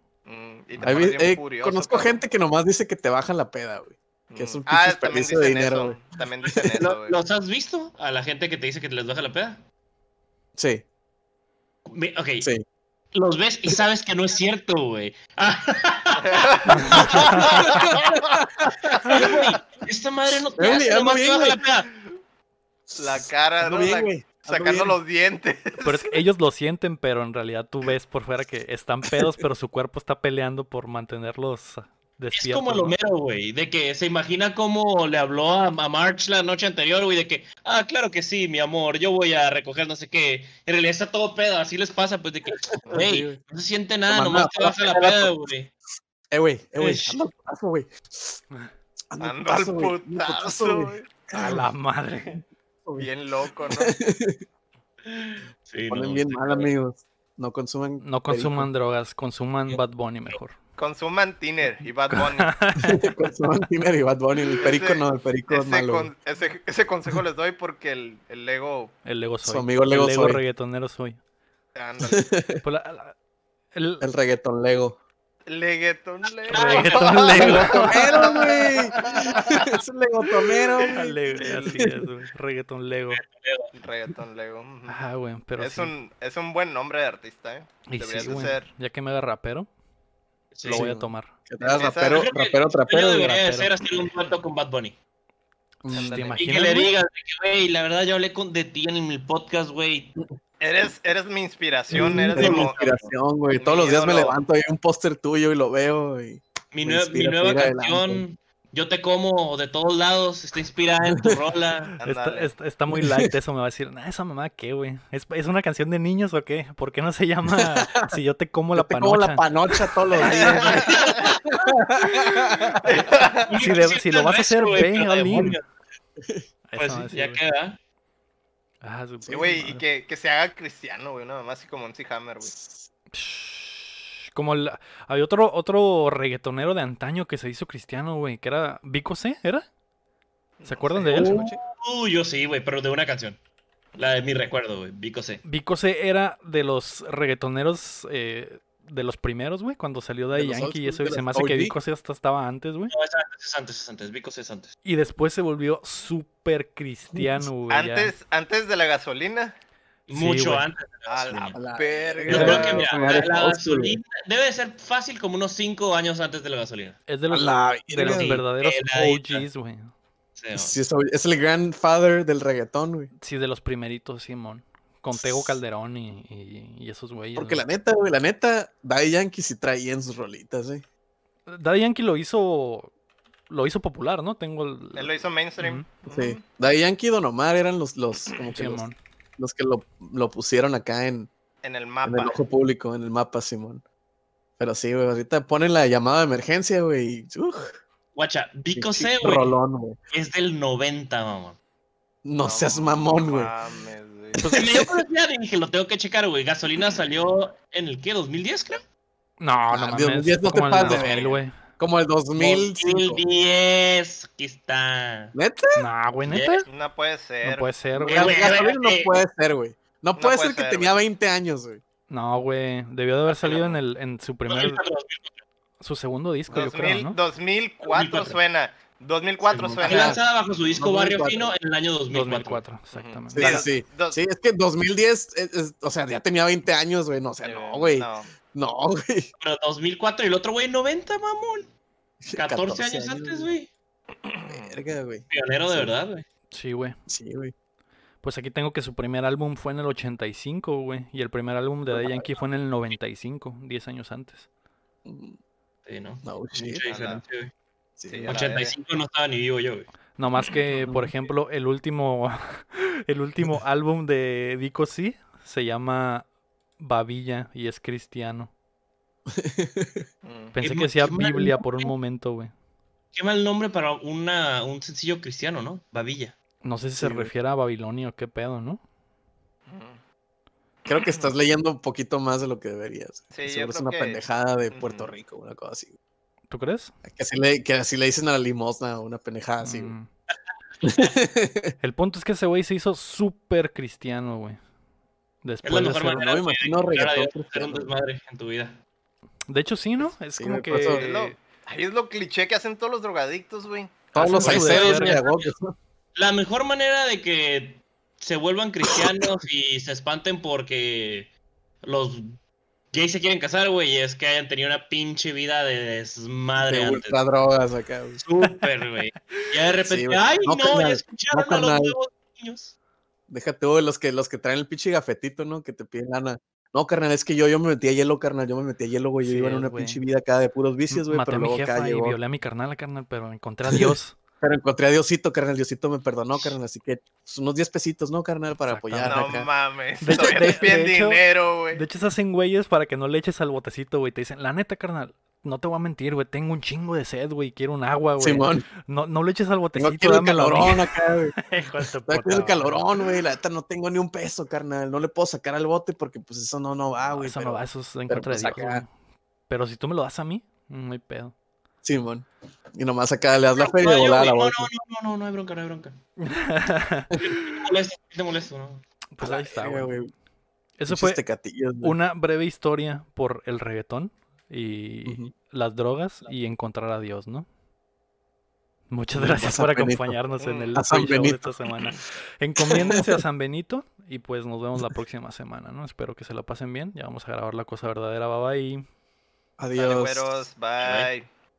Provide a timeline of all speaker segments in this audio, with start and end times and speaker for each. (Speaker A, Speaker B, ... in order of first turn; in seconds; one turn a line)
Speaker A: 0.2-2.2
Speaker B: 0.8-6.0
Speaker A: 4.3-7.2
Speaker C: 6.8-9.6
Speaker B: 10.6-10.8
Speaker C: 11.8-12.5
Speaker C: 13.1-18.0
Speaker A: 16.1-18.2
Speaker D: 16.7-17.7
Speaker B: 17.6-19.1
Speaker A: 18.9-19.4
Speaker C: 19.0-21.9
Speaker B: 20.6-21.6
Speaker B: 22.9-25.0
Speaker A: 23.0-26.1
Speaker D: 25.8-33.0
Speaker C: 32.3-45.7
Speaker B: 42.9-43.4
Speaker B: 44.1-45.3
Speaker B: 46.3-48.4
Speaker C: 46.8-47.2
Speaker B: 49.1-51.6
Speaker A: 49.2-51.1
Speaker D: 51.3-52.4
Speaker A: 53.0-53.9
Speaker B: 53.7-54.4
Speaker C: 55.0-56.7
Speaker B: 55.9-58.7
Speaker D: 58.0-60.6
Speaker A: 60.8-62.5
Speaker D: 62.1-63.1
Speaker B: 62.8-66.1
Speaker A: 64.6-68.9
Speaker D: 69.0-71.2
Speaker B: 69.4-70.4
Speaker A: 71.7-72.3
Speaker B: 72.1-72.6
Speaker D: 72.6-73.1
Speaker D: 73.7-74.0
Speaker B: 74.0-75.0
Speaker A: 75.5-79.8
Speaker D: 76.5-79.7
Speaker C: 76.5-77.2
Speaker B: 77.3-82.0
Speaker A: 80.8-81.8
Speaker D: 80.9-83.2
Speaker C: 83.1-83.7
Speaker A: 83.7-85.0
Speaker D: 84.9-85.9
Speaker A: 85.6-88.7
Speaker D: 87.9-89.7
Speaker C: 90.5-90.8
Speaker D: 90.6-91.3
Speaker B: 90.7-93.4
Speaker A: 91.6-92.2
Speaker C: 92.1-95.0
Speaker D: 93.3-93.7
Speaker B: 95.8-96.2
Speaker D: 95.8-96.9
Speaker A: 95.9-96.4
Speaker C: 96.3-100.2
Speaker A: 100.6-104.4
Speaker C: 101.9-103.0
Speaker B: 101.9-108.2
Speaker C: 106.7-112.0
Speaker A: 112.0-112.5
Speaker D: 112.0-119.4
Speaker B: 112.9-113.3
Speaker B: 117.5-118.1
Speaker B: 118.8-123.0
Speaker A: 120.2-121.6
Speaker C: 120.4-121.4
Speaker A: 122.7-123.5
Speaker C: 122.9-125.6
Speaker D: 123.5-125.6
Speaker D: 126.7-127.4
Speaker C: 126.8-127.8
Speaker D: 128.8-129.8
Speaker B: 129.2-129.6
Speaker A: 129.3-132.5
Speaker B: 132.4-132.9
Speaker D: 133.1-139.7
Speaker A: 140.6-141.4
Speaker D: 140.6-141.4
Speaker C: 141.0-143.4
Speaker B: 141.2-141.5
Speaker C: 143.9-145.4
Speaker D: 145.4-152.9
Speaker B: 150.3-151.8
Speaker C: 152.9-154.7
Speaker D: 154.8-158.1
Speaker A: 157.7-159.5
Speaker C: 160.1-161.6
Speaker D: 160.1-160.7
Speaker A: 161.1-163.3
Speaker B: 161.5-164.0
Speaker C: 162.3-167.0
Speaker D: 167.1-169.9
Speaker B: 167.3-168.4
Speaker C: 168.0-169.4
Speaker C: 170.4-170.8
Speaker B: 170.6-173.1
Speaker D: 173.2-177.7
Speaker B: 175.1-175.6
Speaker B: 177.3-180.8
Speaker D: 181.5-182.9
Speaker D: 183.5-185.8
Speaker A: 184.9-186.4
Speaker B: 186.1-188.8
Speaker D: 188.5-189.0
Speaker B: 189.4-191.3
Speaker A: 191.6-192.4
Speaker B: 192.0-193.8
Speaker B: 194.6-197.8
Speaker C: 198.1-199.6
Speaker B: 198.7-200.0
Speaker C: 200.1-201.6
Speaker B: 202.2-203.5
Speaker A: 202.4-204.5
Speaker B: 204.3-204.9
Speaker C: 204.5-208.8
Speaker D: 209.4-211.5
Speaker B: 209.7-213.2
Speaker C: 210.8-211.3
Speaker A: 211.1-211.3
Speaker C: 212.4-215.3
Speaker B: 215.3-215.8
Speaker D: 215.8-216.7
Speaker C: 216.2-216.6
Speaker A: 216.7-218.7
Speaker D: 217.4-218.3
Speaker B: 218.0-221.8
Speaker C: 218.1-219.1
Speaker A: 220.2-221.0
Speaker D: 222.1-224.8
Speaker A: 223.4-223.7
Speaker C: 224.5-225.4
Speaker D: 225.8-227.2
Speaker A: 226.5-230.2
Speaker C: 227.8-228.4
Speaker C: 229.4-232.6
Speaker B: 229.8-230.2
Speaker B: 230.8-231.5
Speaker D: 232.1-233.7
Speaker A: 232.9-234.2
Speaker B: 233.3-239.3
Speaker A: 237.4-238.3
Speaker C: 239.4-241.7
Speaker B: 242.2-243.5
Speaker C: 242.3-243.7
Speaker A: 244.3-244.8
Speaker B: 244.5-245.9
Speaker C: 245.3-246.2
Speaker D: 246.5-247.0
Speaker B: 247.1-247.5
Speaker D: 248.2-254.5
Speaker B: 251.9-252.3
Speaker B: 255.0-255.3
Speaker C: 255.8-257.5
Speaker B: 256.2-256.9
Speaker A: 256.9-257.2
Speaker B: 258.0-258.3
Speaker A: 258.1-258.7
Speaker C: 258.2-259.9
Speaker D: 260.2-266.3
Speaker D: 266.8-268.5
Speaker B: 269.3-270.1
Speaker A: 270.2-270.6
Speaker D: 270.5-272.5
Speaker C: 270.6-271.9
Speaker C: 273.1-276.3
Speaker D: 276.6-278.8
Speaker B: 277.0-277.3
Speaker A: 279.7-280.0
Speaker A: 280.9-281.3
Speaker B: 280.9-286.0
Speaker A: 283.3-285.1
Speaker D: 286.5-286.9
Speaker B: 287.1-289.9
Speaker D: 289.6-290.1
Speaker B: 290.8-291.7
Speaker D: 291.8-294.6
Speaker D: 295.4-296.3
Speaker C: 295.6-298.8
Speaker B: 296.1-297.9
Speaker D: 299.5-301.3
Speaker B: 300.4-301.1
Speaker A: 300.9-304.1
Speaker B: 304.1-305.7
Speaker D: 304.1-305.2
Speaker C: 304.4-305.5
Speaker C: 306.1-311.3
Speaker C: 311.8-312.4
Speaker C: 312.9-317.2
Speaker B: 316.6-318.2
Speaker C: 318.2-322.7
Speaker B: 319.8-321.9
Speaker B: 323.3-332.2
Speaker D: 329.2-330.0
Speaker D: 330.9-334.2
Speaker B: 333.7-339.5
Speaker D: 338.6-339.3
Speaker A: 339.0-341.8
Speaker D: 340.0-352.8
Speaker B: 340.1-340.6
Speaker B: 348.2-348.6
Speaker B: 349.8-351.4
Speaker B: 352.0-358.8
Speaker D: 357.1-358.9
Speaker D: 359.5-361.3
Speaker B: 361.8-364.7
Speaker C: 363.6-365.9
Speaker D: 366.2-367.4
Speaker C: 367.2-368.8
Speaker D: 369.1-369.9
Speaker B: 369.2-370.1
Speaker D: 370.8-371.2
Speaker B: 370.9-371.9
Speaker D: 371.8-377.5
Speaker B: 375.1-375.3
Speaker D: 378.9-388.8
Speaker B: 379.1-380.2
Speaker A: 380.4-380.7
Speaker B: 380.7-381.5
Speaker B: 382.6-383.2
Speaker B: 389.6-390.3
Speaker A: 389.8-391.2
Speaker C: 390.8-391.1